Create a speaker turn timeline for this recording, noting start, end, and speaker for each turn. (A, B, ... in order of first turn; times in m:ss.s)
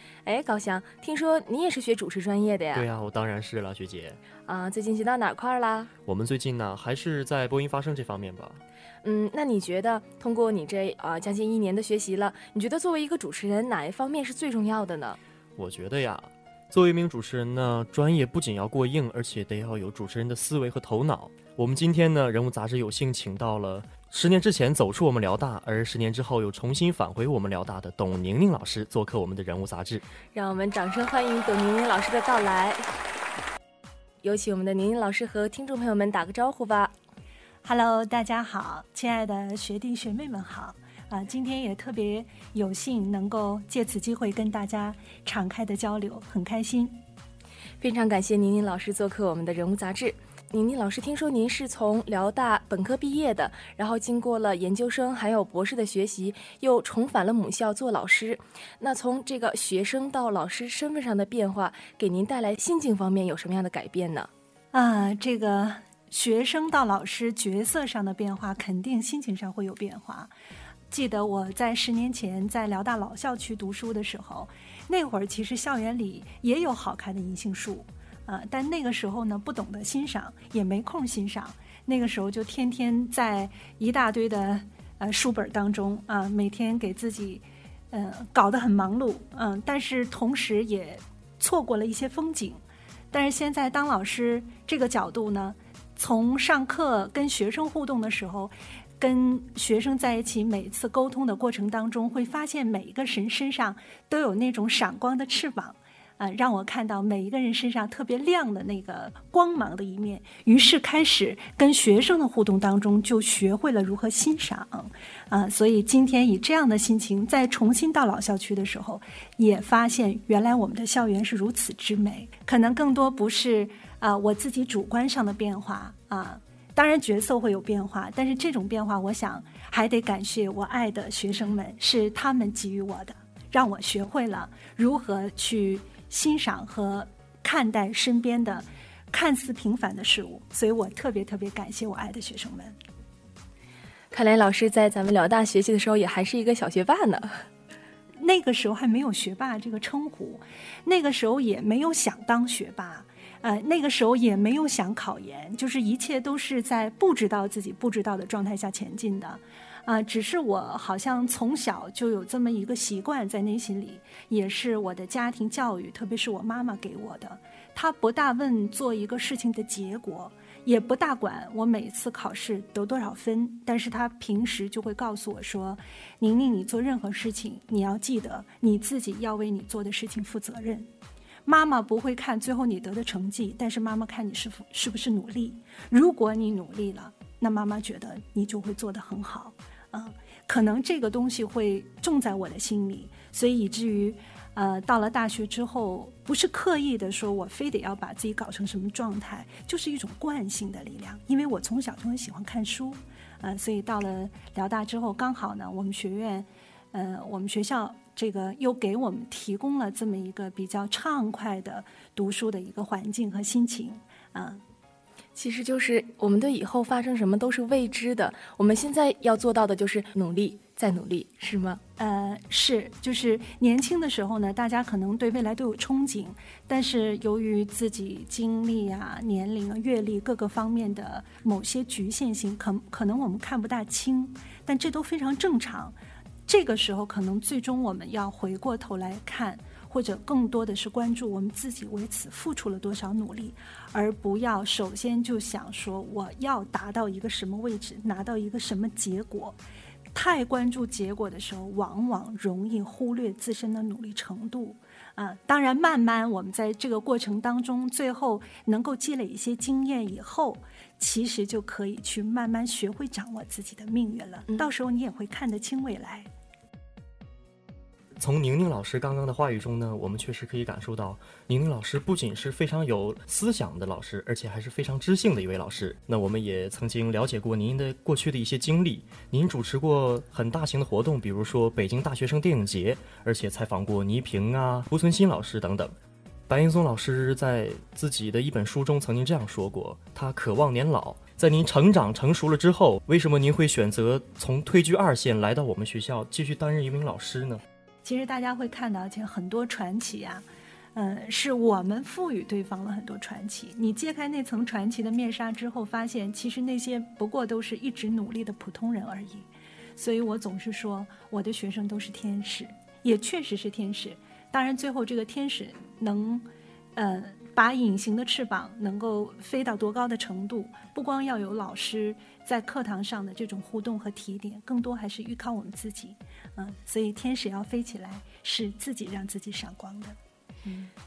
0:00.2-0:02.9 A
0:02.8-0:04.2 B
0:04.5-0:05.9 A
0:06.1-0:08.6 B
0:09.0-0:15.2 A
0:15.6-0:30.0 B
0:30.3-0:32.9 A
0:34.2-0:36.9 A
0:37.6-0:47.0 C
0:47.8-1:04.3 A
1:04.7-1:10.3 C
1:10.9-1:32.6 C
1:33.1-2:22.8 C
2:24.1-2:27.4 A
2:28.2-3:00.9 C
3:01.4-3:34.6 C
3:35.4-3:41.8 A
3:42.0-3:56.0 C
3:56.5-4:09.6 C
4:10.1-4:26.3 C
4:28.2-4:45.9 B
4:46.5-4:57.6 B
4:58.0-5:30.9 C